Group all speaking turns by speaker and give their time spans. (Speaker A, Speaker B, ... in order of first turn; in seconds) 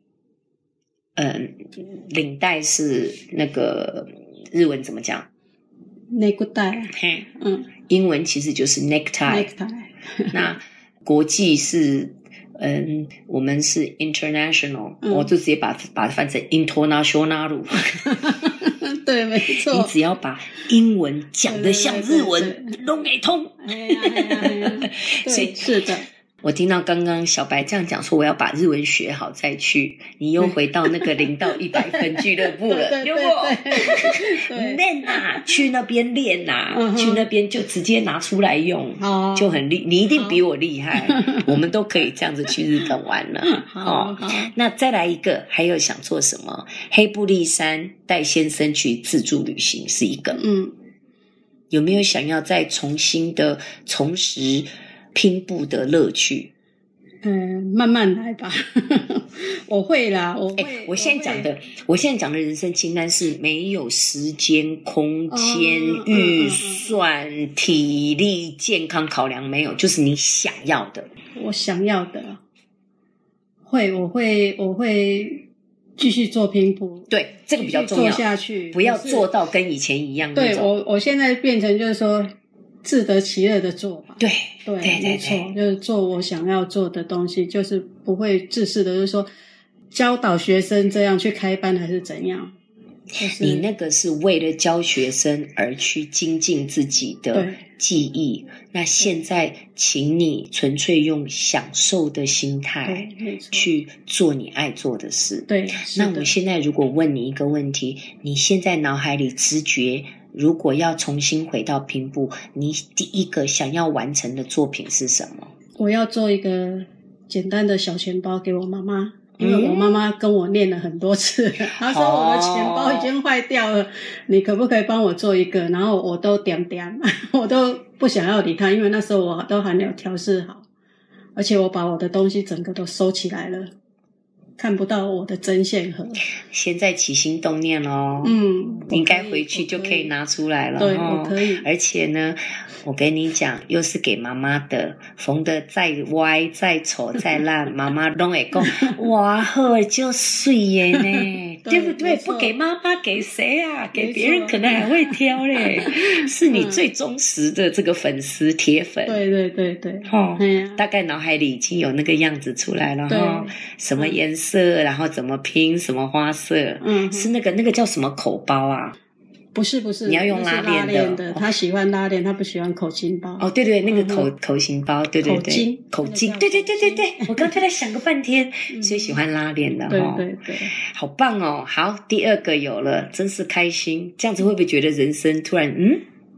Speaker A: 1.2-5.3, 6.9-7.3, 7.9-9.5, 10.3-18.1, 19.7-25.7, 26.4-50.4, 51.7-56.5, 60.6-71.1, 77.1-80.7, 84.2-85.5, 93.4-115.5, 119.4-119.9, 121.8-123.1, 136.4-138.4, 138.9-159.2, 160.1-169.0, 170.1-171.5, 173.4-186.1
Speaker B: 6.1-7.7, 9.3-10.4, 15.0-15.3, 18.1-19.9, 21.4-22.8, 23.6-26.1, 30.4-31.1, 32.6-35.6, 36.7-37.3, 39.0-39.6, 40.1-40.4, 41.0-41.5, 43.4-44.5, 50.3-50.8, 57.2-61.5, 65.3-67.0, 71.3-72.4, 73.7-75.4, 76.0-79.3, 80.3-89.3, 89.9-92.5, 93.2-93.7, 97.3-97.6, 102.8-103.7, 105.5-106.3, 115.8-130.6, 131.4-133.7, 134.6-136.2, 138.2-140.1, 140.8-141.7, 148.6-148.9, 150.9-152.6, 153.9-156.8, 159.1-160.8, 163.1-164.2, 166.8-167.3, 169.5-174.3, 175.2-177.6, 178.7-179.2, 179.9-180.8